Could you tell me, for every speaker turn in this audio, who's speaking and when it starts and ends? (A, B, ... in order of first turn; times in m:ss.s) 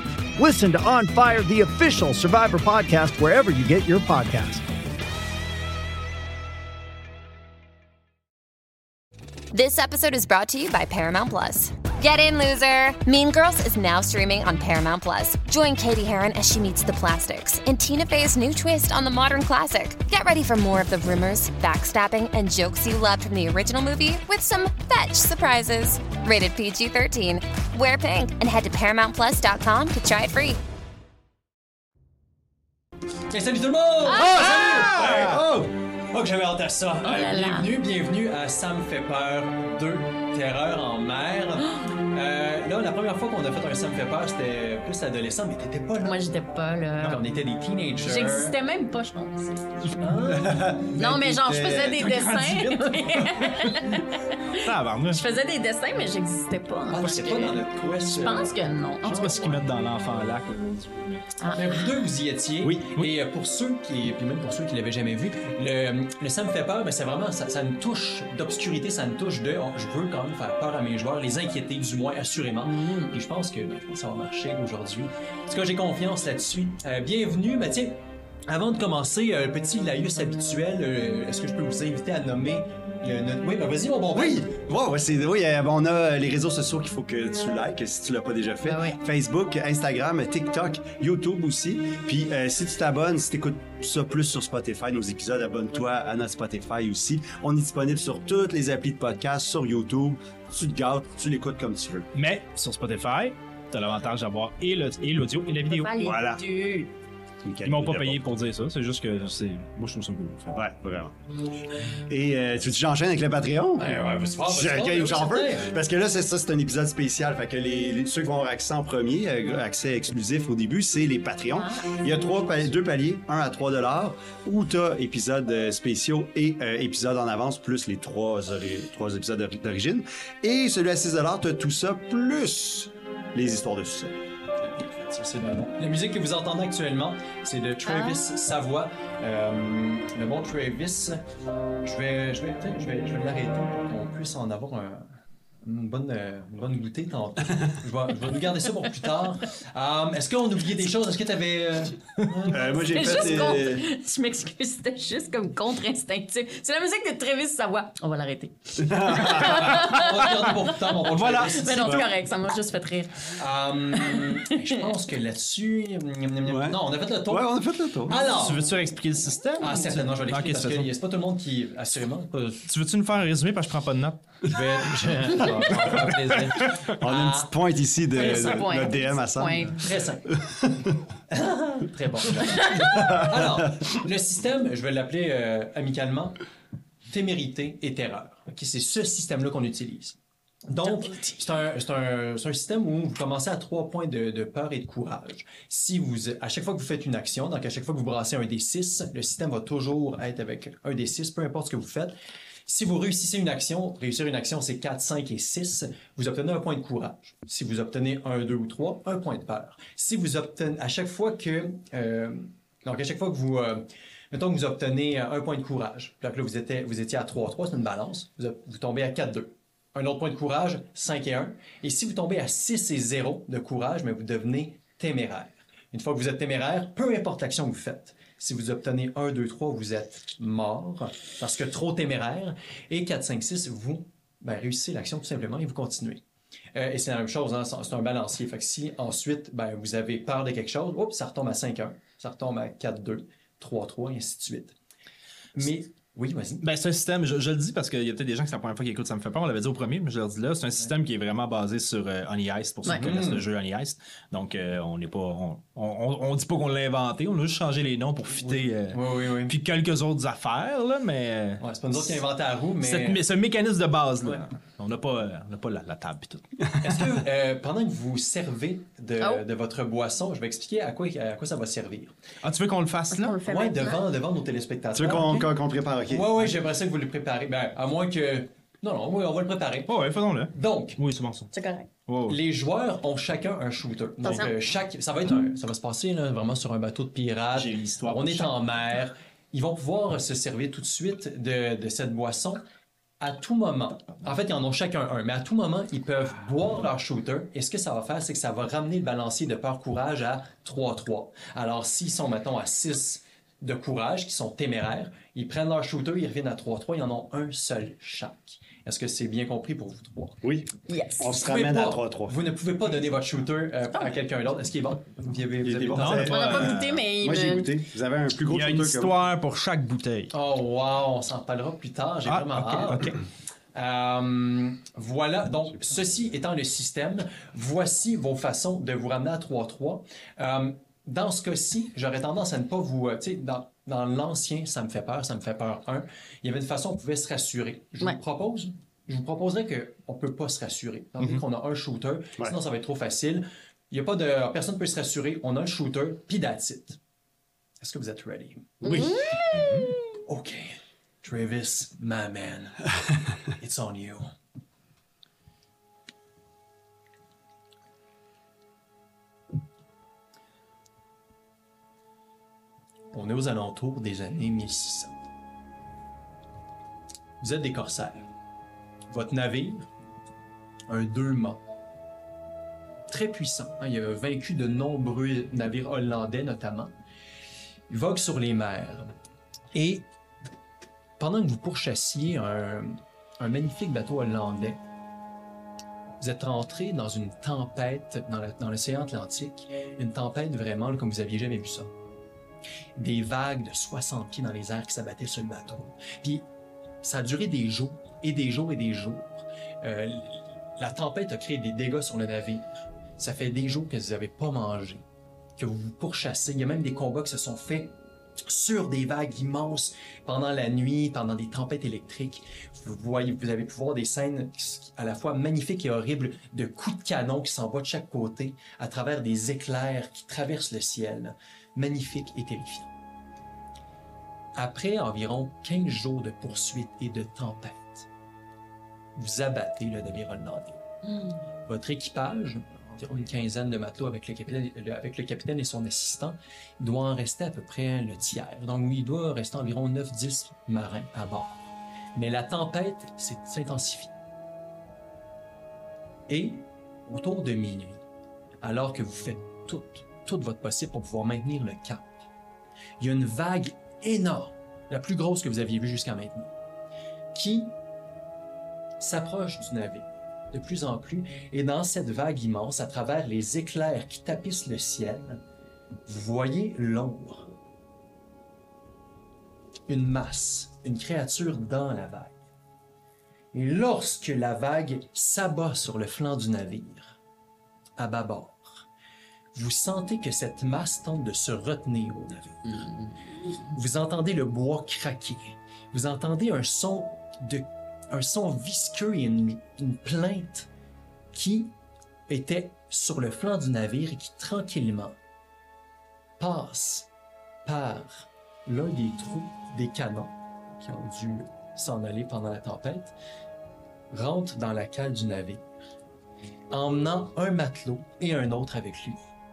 0:00.4-0:04.6 A
0:09.5-0:30.6 B
0:33.3-0:35.4 C
0:34.1-0:34.9 D
0:34.2-0:35.5 E
0:34.6-0:35.7 F
0:36.1-0:46.3 C
0:37.0-0:37.7 D
0:46.0-0:47.2 D
0:47.0-0:48.6 C
0:48.0-0:49.6 D
0:50.0-0:51.1 C
0:50.3-0:52.2 F
0:50.9-0:59.6 D
0:52.0-0:53.6 E
0:54.6-0:55.2 E
0:56.9-0:58.6 C
0:59.0-1:01.2 E
1:01.4-1:01.8 D
1:01.5-1:24.5 C
1:02.6-1:03.1 E
1:12.6-1:13.2 D
1:24.1-1:42.1 F
1:28.6-1:29.0 D
1:42.1-1:46.0 E
1:45.7-1:46.9 D
1:46.0-1:46.4 F
1:47.4-1:48.2 F
1:47.6-1:50.6 E
1:50.5-1:51.2 F
1:52.1-2:14.2 F
1:53.8-1:55.7 C
2:01.5-2:02.4 D
2:14.6-2:21.2 C
2:17.8-2:18.2 D
2:21.8-2:33.6 C
2:32.5-2:33.9 F
2:32.7-2:40.8 D
2:38.8-2:39.8 F
2:39.2-2:42.0 C
2:41.1-2:42.1 E
2:41.4-2:43.4 D
2:43.3-2:47.5 C
2:43.9-2:44.5 D
2:46.4-2:48.2 F
2:48.1-2:48.6 C
2:48.2-2:50.9 E
2:49.6-2:52.7 C
2:52.7-2:54.6 E
2:54.4-2:57.5 C
2:57.0-2:59.7 F
2:58.1-2:59.9 D
2:59.6-3:00.3 C
3:00.3-3:00.9 F
3:01.3-3:06.4 C
3:02.7-3:03.2 D
3:07.1-4:04.7 C
3:10.8-3:11.4 D
4:05.6-4:06.6 C
4:06.6-4:22.2 E
4:12.8-4:13.5 C
4:18.4-4:19.6 C
4:21.6-4:23.2 C
4:22.8-4:27.1 E
4:26.8-4:32.2 C
4:32.4-4:33.4 E
4:33.1-4:34.0 D
4:33.5-4:35.5 C
4:35.0-4:36.4 F
4:36.1-4:39.9 C
4:39.9-4:41.5 E
4:40.5-4:41.0 C
4:41.5-4:41.9 D
4:42.1-4:42.4 E
4:42.3-4:52.6 C
4:44.2-4:44.5 D
4:47.6-4:48.6 E
4:53.2-5:10.4 C
5:10.4-5:12.4 F
5:10.9-5:11.3 D
5:11.4-5:16.4 C
5:15.6-5:19.1 F
5:15.9-5:17.0 E
5:16.3-5:17.7 D
5:18.4-5:20.3 E
5:20.3-5:23.1 C
5:22.2-5:23.2 E
5:23.8-5:47.0 C
5:47.8-5:48.8 C
5:48.8-5:49.2 F
5:48.8-5:50.0 D
5:49.5-5:50.0 E
5:50.2-5:52.9 C
5:53.5-5:54.3 C
6:03.1-6:05.2 C
6:07.4-6:08.2 C
6:09.1-6:09.9 C
6:10.9-6:11.6 C
6:13.1-6:16.9 C
6:17.9-6:19.1 C
6:19.7-6:20.1 C
6:21.2-6:24.8 C
6:26.2-6:31.9 C
6:33.0-6:36.4 C
6:37.0-6:42.7 C
6:43.2-6:45.0 C
6:45.6-7:02.9 C
7:04.6-7:08.1 C
7:09.2-7:10.8 C
7:11.1-7:11.4 D
7:11.7-7:24.1 C
7:26.3-7:28.0 C
7:28.6-7:32.2 C
7:33.0-7:36.5 C
7:37.3-7:37.7 C
7:39.0-7:45.4 C
7:46.1-7:47.5 C
7:49.9-7:52.4 C
7:53.5-7:57.2 C
7:58.0-7:58.9 C
7:59.5-8:02.9 C
8:03.7-8:10.7 C
8:11.3-8:11.7 C
8:12.3-8:15.2 C
8:16.4-8:17.1 C
8:17.6-8:23.1 C
8:24.1-8:25.6 C
8:26.7-8:29.2 C